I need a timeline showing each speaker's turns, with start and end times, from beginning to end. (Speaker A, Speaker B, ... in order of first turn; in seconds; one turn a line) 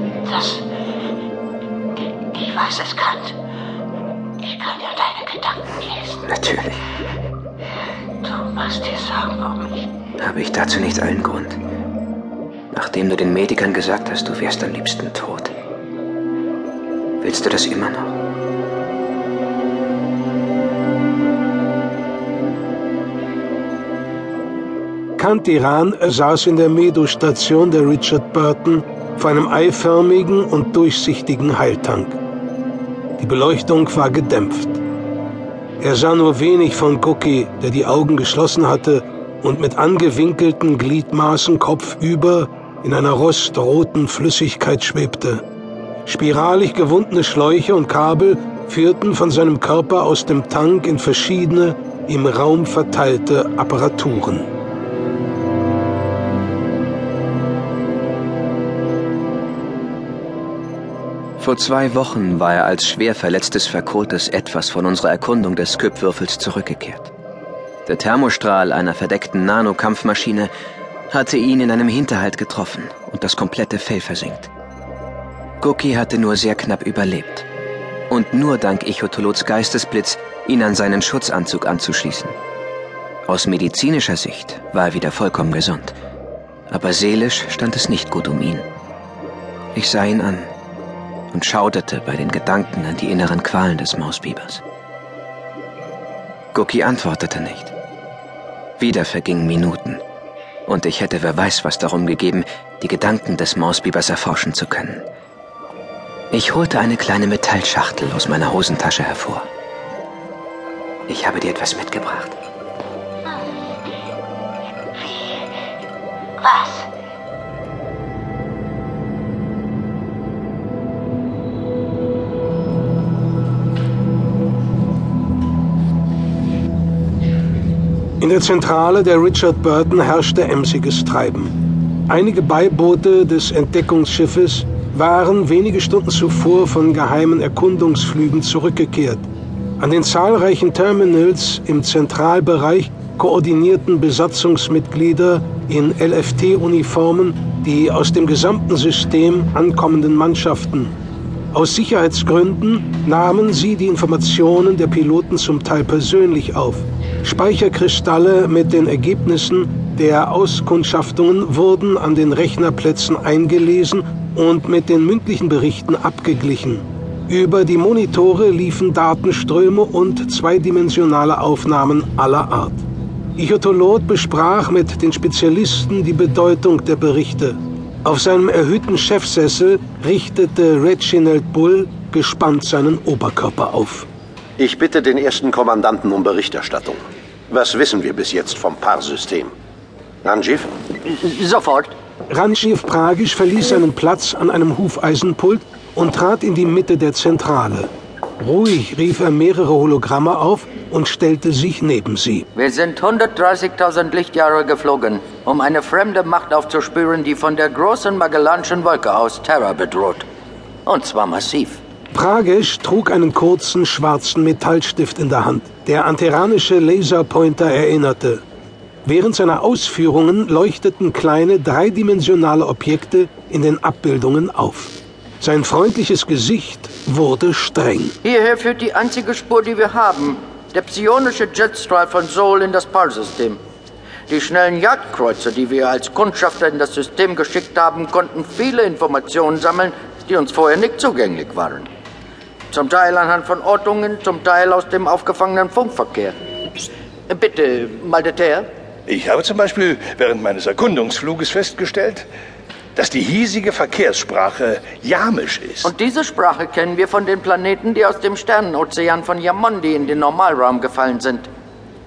Speaker A: 2.3-3.3
Speaker A: 4.5-6.0
Speaker B: 6.2-6.8
Speaker A: 8.3-9.5
Speaker B: 10.2-11.6
Speaker B: 12.7-15.5
Speaker B: 17.2-18.1
Speaker C: 25.2-32.2
Speaker C: 33.2-34.8
Speaker C: 35.8-45.4
Speaker C: 46.1-54.5
Speaker B: 61.4-67.1
Speaker B: 67.9-70.5
Speaker B: 71.1-74.5
Speaker B: 75.6-77.5
Speaker B: 78.1-82.4
Speaker B: 83.3-86.0
Speaker B: 86.7-88.7
Speaker B: 89.8-90.5
Speaker B: 91.3-94.6
Speaker B: 96.5-97.7
Speaker B: 98.8-100.0
Speaker B: 100.7-105.1
Speaker B: 106.3-109.5
Speaker B: 111.1-112.4
Speaker C: 128.2-131.6
Speaker C: 132.1-139.3
Speaker C: 139.8-150.9
Speaker C: 151.5-172.8
Speaker C: 173.4-184.1
Speaker D: 184.6-189.5
Speaker D: 190.2-190.7
Speaker E: 191.0-191.9
Speaker C: 192.3-202.5
Speaker E: 202.6-210.2
Speaker E: 210.8-211.8
Speaker C: 212.1-218.4
Speaker C: 219.1-228.2
Speaker E: 228.2-233.6
Speaker E: 234.3-241.9
Speaker E: 242.7-246.4
Speaker E: 247.3-248.7
Speaker F: 249.1-252.3
Speaker F: 253.0-255.8
Speaker E: 255.8-261.5